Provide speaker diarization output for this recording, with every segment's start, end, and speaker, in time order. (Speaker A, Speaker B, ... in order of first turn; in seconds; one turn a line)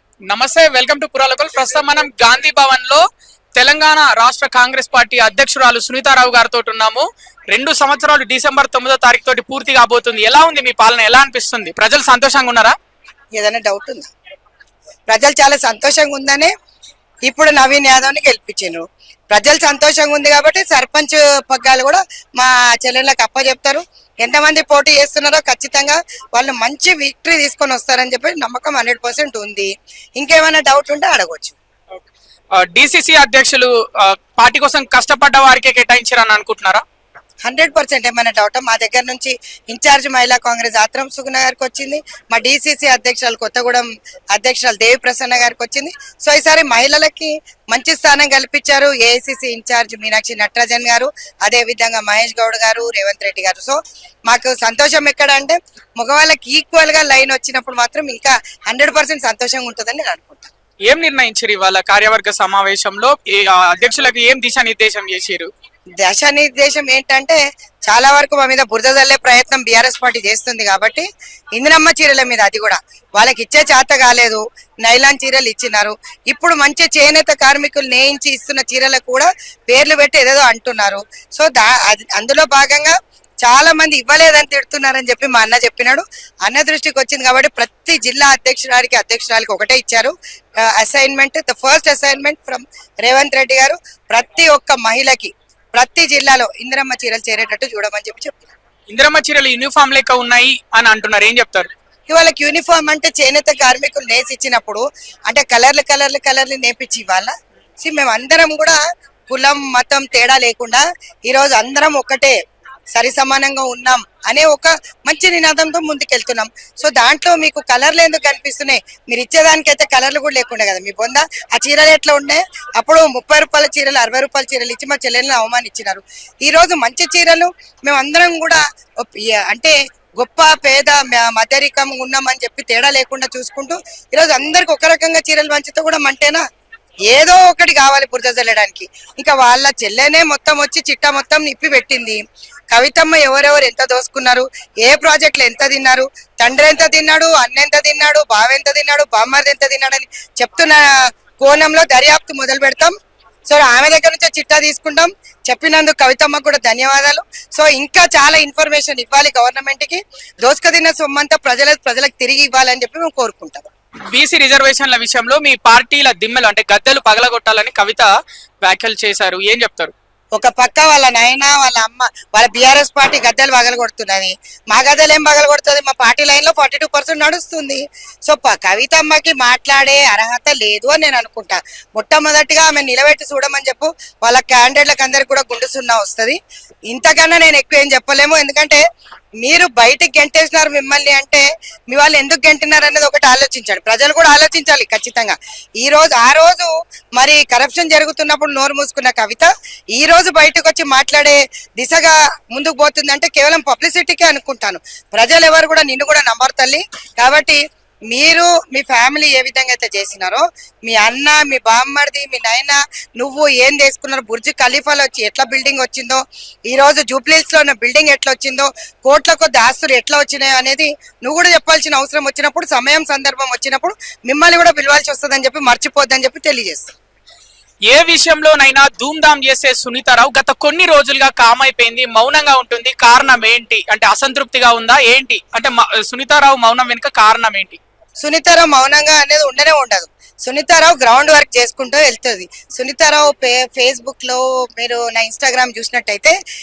Speaker A: 0.3-3.0
Speaker A: 3.6-12.7
Speaker B: 13.4-14.1
Speaker B: 15.1-16.5
Speaker B: 17.3-31.6
Speaker A: 32.6-36.8
Speaker B: 37.5-60.5
Speaker A: 60.9-65.5
Speaker B: 66.0-90.1
Speaker B: 90.7-98.5
Speaker A: 98.9-101.7
Speaker B: 102.1-108.8
Speaker B: 109.3-112.4
Speaker B: 112.9-136.4
Speaker B: 137.1-142.2
Speaker B: 142.7-150.9
Speaker B: 151.4-152.9
Speaker B: 153.5-163.7
Speaker A: 164.1-168.1
Speaker A: 168.6-169.9
Speaker B: 170.4-186.4
Speaker B: 186.9-188.8
Speaker B: 189.4-207.6
Speaker B: 208.1-226.9
Speaker A: 227.9-237.8
Speaker B: 238.2-246.3